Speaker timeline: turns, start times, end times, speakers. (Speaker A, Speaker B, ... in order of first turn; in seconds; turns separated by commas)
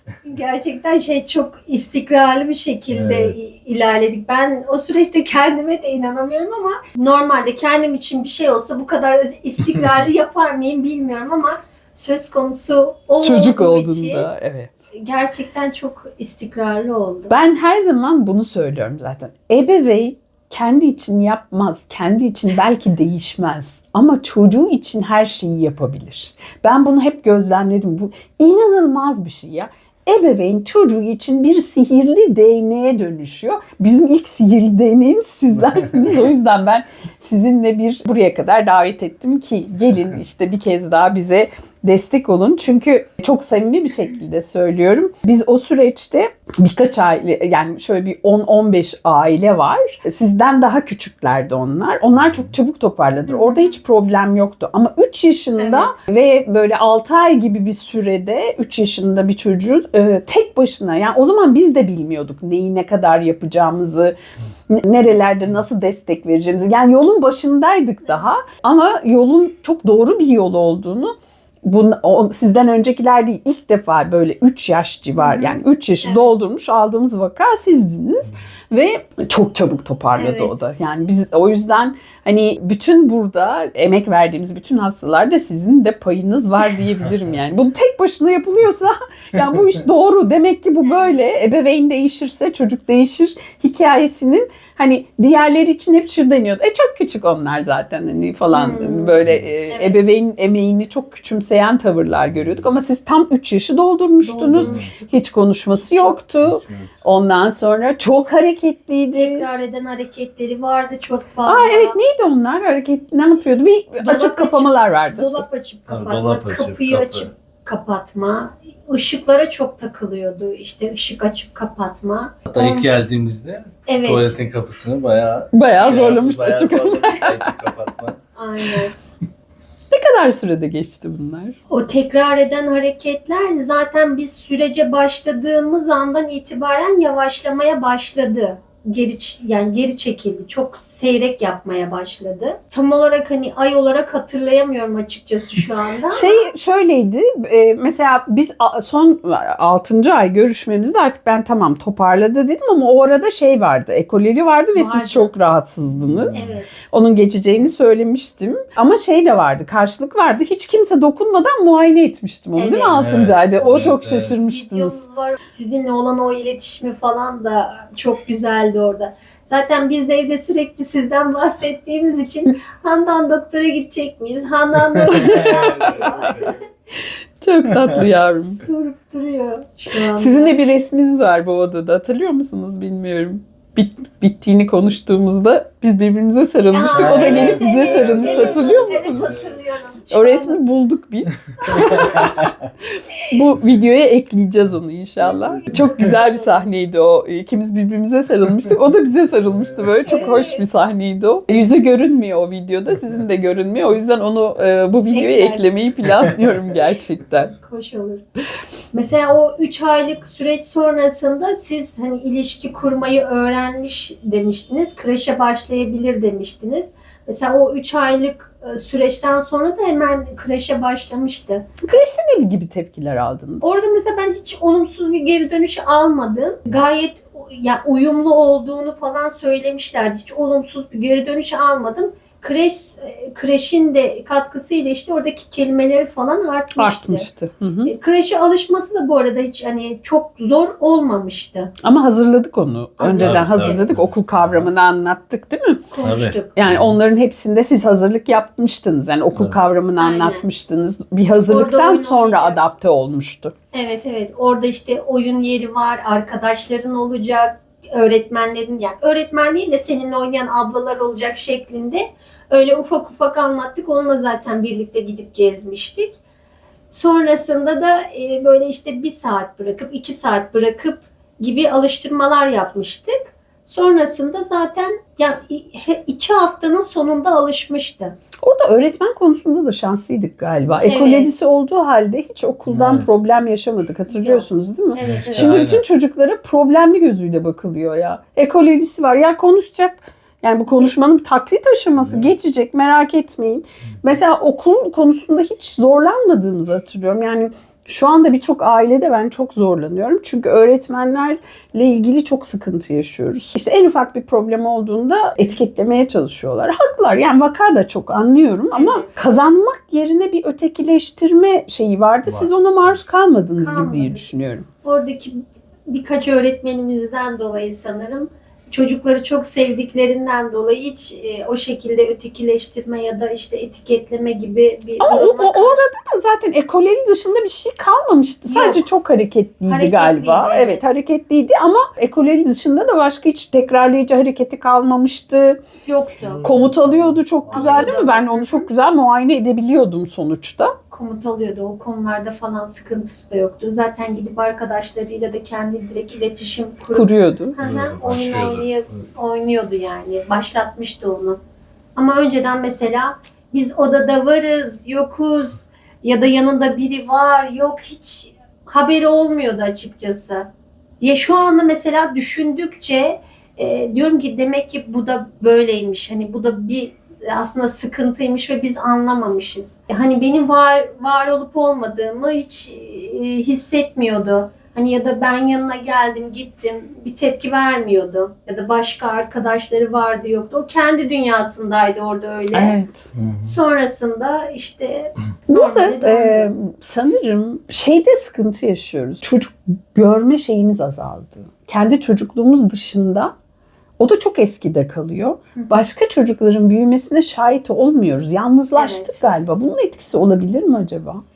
Speaker A: 0.2-14.2, Speaker B: 2.9-3.4, Speaker C: 13.2-14.7, Speaker A: 15.0-17.3, Speaker C: 17.3-64.2, Speaker A: 53.3-53.8, Speaker A: 55.6-56.0, Speaker C: 64.7-109.5, Speaker A: 75.2-76.4, Speaker A: 80.2-80.5, Speaker A: 90.8-91.1, Speaker A: 98.5-99.1, Speaker A: 99.7-100.1, Speaker B: 102.3-102.6, Speaker A: 104.2-104.9, Speaker B: 104.6-104.9, Speaker A: 105.8-106.2, Speaker B: 106.4-106.9, Speaker A: 109.1-112.0, Speaker C: 111.5-115.4, Speaker A: 114.0-122.9, Speaker B: 115.9-117.3, Speaker B: 122.5-128.2, Speaker A: 123.9-124.4, Speaker C: 125.5-127.5, Speaker A: 125.8-126.3, Speaker A: 128.4-128.9, Speaker C: 129.9-131.6, Speaker A: 131.7-146.5, Speaker C: 146.1-165.0, Speaker A: 154.8-155.3, Speaker B: 155.9-156.5, Speaker A: 156.3-156.8, Speaker A: 162.6-163.1, Speaker B: 162.9-164.3, Speaker A: 164.3-176.6, Speaker B: 174.9-176.6, Speaker C: 175.1-176.5, Speaker C: 177.4-178.6, Speaker B: 177.7-178.0, Speaker A: 178.1-180.6, Speaker C: 180.2-189.4, Speaker A: 186.7-190.6, Speaker B: 186.9-189.6, Speaker C: 190.1-192.5, Speaker A: 191.6-192.3, Speaker B: 191.7-192.7, Speaker C: 193.2-207.5, Speaker A: 195.5-196.6, Speaker B: 195.7-196.0, Speaker B: 199.6-200.0, Speaker A: 200.1-200.6, Speaker A: 205.1-205.7, Speaker A: 207.6-208.2, Speaker A: 208.9-221.7, Speaker C: 221.8-223.6, Speaker A: 223.6-237.2, Speaker C: 236.8-237.9, Speaker A: 237.8-241.7, Speaker C: 241.8-245.8, Speaker A: 243.0-244.0, Speaker B: 243.2-244.7, Speaker A: 245.9-246.5, Speaker B: 246.0-246.9, Speaker C: 246.5-253.5, Speaker B: 249.3-249.6, Speaker A: 250.0-250.4, Speaker A: 251.5-252.7, Speaker A: 253.7-266.1, Speaker A: 266.9-278.1, Speaker C: 278.4-314.6, Speaker A: 280.8-281.4, Speaker B: 282.7-283.1, Speaker A: 284.1-285.6, Speaker B: 285.0-285.8, Speaker A: 308.8-309.4, Speaker A: 313.6-314.2, Speaker A: 314.8-325.8, Speaker C: 325.0-335.6, Speaker A: 328.5-328.9, Speaker A: 329.7-331.0, Speaker A: 335.9-336.4, Speaker B: 336.2-338.0, Speaker C: 336.4-340.8, Speaker A: 337.5-338.7, Speaker A: 340.9-351.4, Speaker C: 346.9-347.6, Speaker B: 347.6-348.7, Speaker A: 352.0-360.5, Speaker A: 361.0-382.8, Speaker C: 382.5-383.1, Speaker B: 383.1-383.5, Speaker A: 383.4-386.5, Speaker C: 385.5-393.3, Speaker C: 394.0-401.2, Speaker A: 398.8-399.2